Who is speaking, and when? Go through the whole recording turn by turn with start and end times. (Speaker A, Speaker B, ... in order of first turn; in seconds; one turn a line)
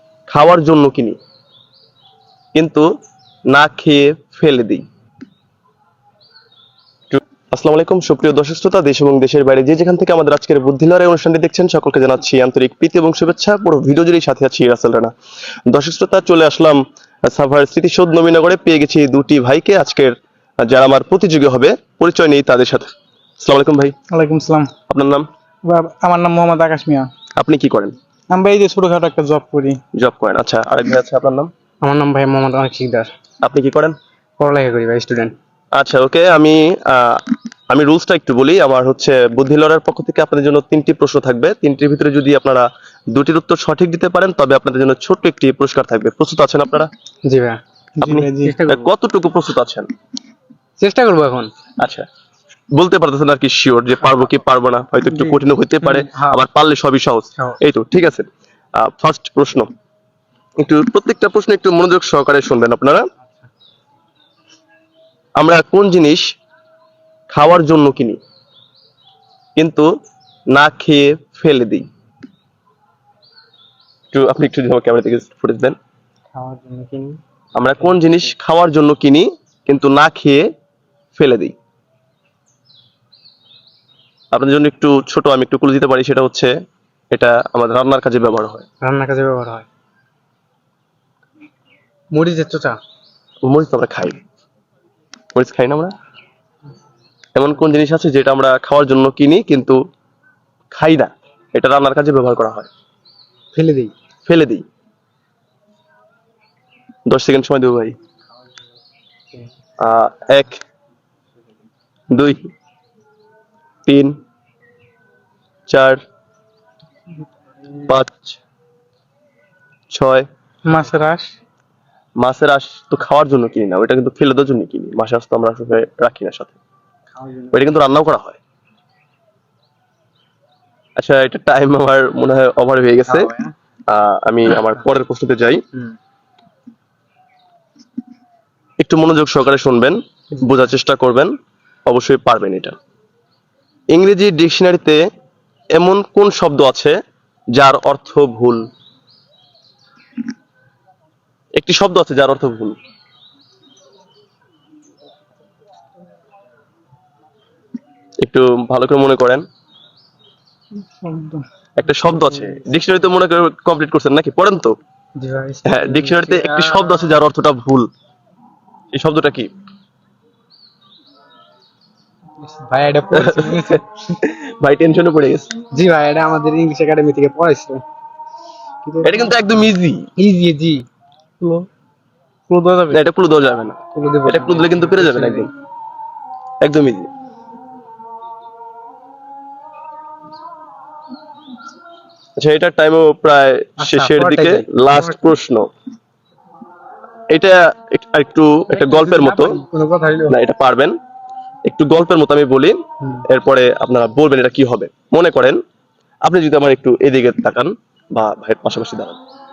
Speaker A: 0.3-1.2
Speaker A: 2.5-2.9
Speaker A: 3.5-4.8
Speaker A: 7.1-15.1
Speaker A: 15.7-23.9
Speaker B: 24.1-24.7
Speaker A: 24.9-25.3
Speaker B: 25.6-27.1
Speaker A: 27.4-27.9
Speaker B: 28.3-29.8
Speaker A: 29.9-31.5
Speaker C: 31.8-33.1
Speaker A: 33.4-34.0
Speaker C: 34.4-35.3
Speaker A: 35.8-46.9
Speaker C: 47.2-47.6
Speaker B: 48.0-48.5
Speaker A: 48.0-49.9
Speaker C: 48.4-48.9
Speaker C: 50.8-51.5
Speaker A: 51.8-52.0
Speaker A: 52.7-59.7
Speaker C: 55.1-56.4
Speaker A: 60.6-63.0
Speaker A: 65.4-66.2
Speaker A: 67.3-68.2
Speaker A: 69.5-69.9
Speaker A: 70.5-71.8
Speaker A: 74.1-75.8
Speaker C: 76.3-77.2
Speaker A: 77.5-80.5
Speaker A: 81.1-81.5
Speaker A: 84.3-86.5
Speaker A: 87.1-88.7
Speaker C: 88.8-89.7
Speaker C: 92.1-92.8
Speaker A: 93.5-94.2
Speaker A: 95.3-95.9
Speaker A: 97.3-99.8
Speaker A: 100.7-102.7
Speaker C: 103.5-103.9
Speaker A: 104.2-104.6
Speaker A: 107.1-108.0
Speaker A: 109.8-110.6
Speaker A: 112.1-112.4
Speaker A: 113.8-114.2
Speaker A: 115.7-116.0
Speaker A: 117.8-118.4
Speaker A: 119.9-120.2
Speaker B: 120.7-121.3
Speaker A: 122.2-126.6
Speaker C: 127.2-127.5
Speaker A: 127.5-128.4
Speaker A: 131.0-133.3
Speaker C: 133.1-133.5
Speaker A: 133.9-135.6
Speaker A: 138.8-141.3
Speaker A: 141.8-142.8
Speaker A: 143.9-145.0
Speaker A: 145.7-147.0
Speaker A: 147.5-148.6
Speaker A: 151.6-152.8
Speaker A: 158.2-159.4
Speaker B: 161.0-161.4
Speaker A: 161.8-164.7
Speaker C: 165.2-167.0
Speaker A: 165.6-167.9
Speaker A: 168.9-169.5
Speaker C: 172.4-173.9
Speaker A: 173.1-175.5
Speaker C: 175.7-177.8
Speaker C: 178.8-179.4
Speaker A: 179.0-180.1
Speaker C: 180.2-180.8
Speaker B: 182.5-183.0
Speaker A: 182.9-185.5
Speaker C: 183.9-185.5
Speaker A: 186.6-187.1
Speaker A: 192.4-195.7
Speaker C: 193.8-195.2
Speaker A: 197.3-199.6
Speaker C: 198.7-200.4
Speaker A: 200.3-200.9
Speaker A: 201.7-205.6
Speaker A: 206.2-209.2